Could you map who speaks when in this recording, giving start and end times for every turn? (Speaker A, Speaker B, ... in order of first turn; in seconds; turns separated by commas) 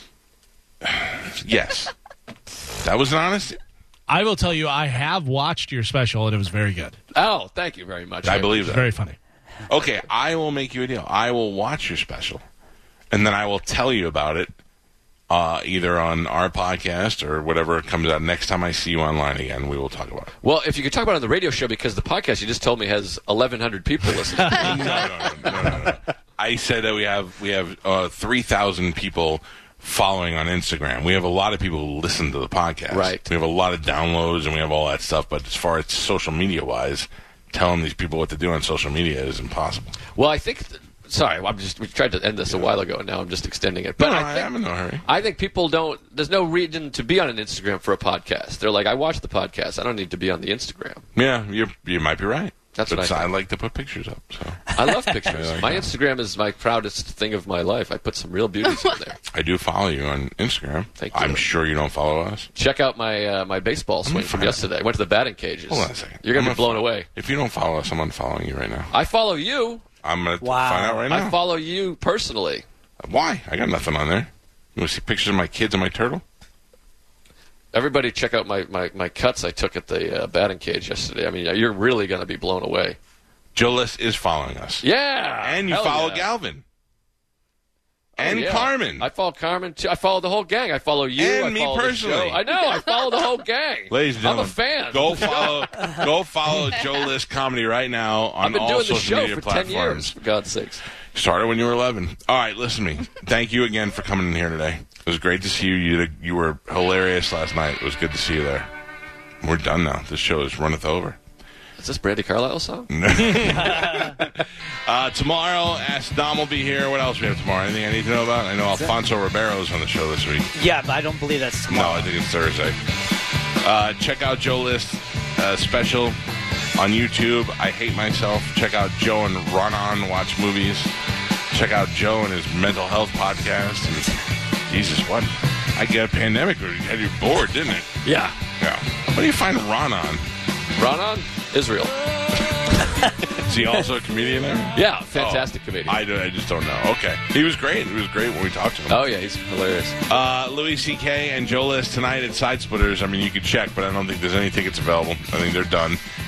Speaker A: 0.8-1.9, Speaker A: 2.8-3.6, Speaker B: 4.1-6.9, Speaker C: 7.1-8.8, Speaker A: 8.2-8.8, Speaker B: 8.6-9.2, Speaker A: 9.7-12.4, Speaker A: 13.1-14.5, Speaker A: 15.3-20.3, Speaker C: 20.4-25.6, Speaker A: 24.5-40.0, Speaker C: 32.9-33.3, Speaker C: 40.1-44.5, Speaker A: 44.0-45.0, Speaker C: 45.0-51.0, Speaker A: 51.1-55.9, Speaker C: 52.7-53.3, Speaker C: 54.7-59.2, Speaker A: 59.3-62.5, Speaker C: 61.0-61.5, Speaker C: 62.5-67.1, Speaker A: 64.0-64.6, Speaker A: 65.7-68.9, Speaker C: 68.9-69.8, Speaker A: 70.0-71.4, Speaker D: 70.4-71.1, Speaker C: 71.1-72.6, Speaker A: 73.0-76.2, Speaker C: 77.7-83.0, Speaker A: 83.5-84.8, Speaker C: 84.8-86.3, Speaker A: 85.4-86.6, Speaker C: 88.2-95.9, Speaker A: 88.2-89.1, Speaker A: 91.2-92.4, Speaker A: 93.9-100.1, Speaker C: 98.4-100.8, Speaker A: 101.1-108.7, Speaker A: 109.4-111.2, Speaker C: 111.8-112.9, Speaker A: 112.9-120.5, Speaker D: 113.6-114.2, Speaker D: 120.5-122.1, Speaker A: 121.7-122.8, Speaker A: 123.6-126.2, Speaker A: 126.8-130.9, Speaker A: 131.5-134.1, Speaker A: 134.7-138.0, Speaker C: 138.0-138.3, Speaker A: 138.6-140.2, Speaker C: 140.7-142.0, Speaker A: 143.2-149.0, Speaker C: 144.7-146.0, Speaker C: 148.9-150.0, Speaker A: 150.1-156.0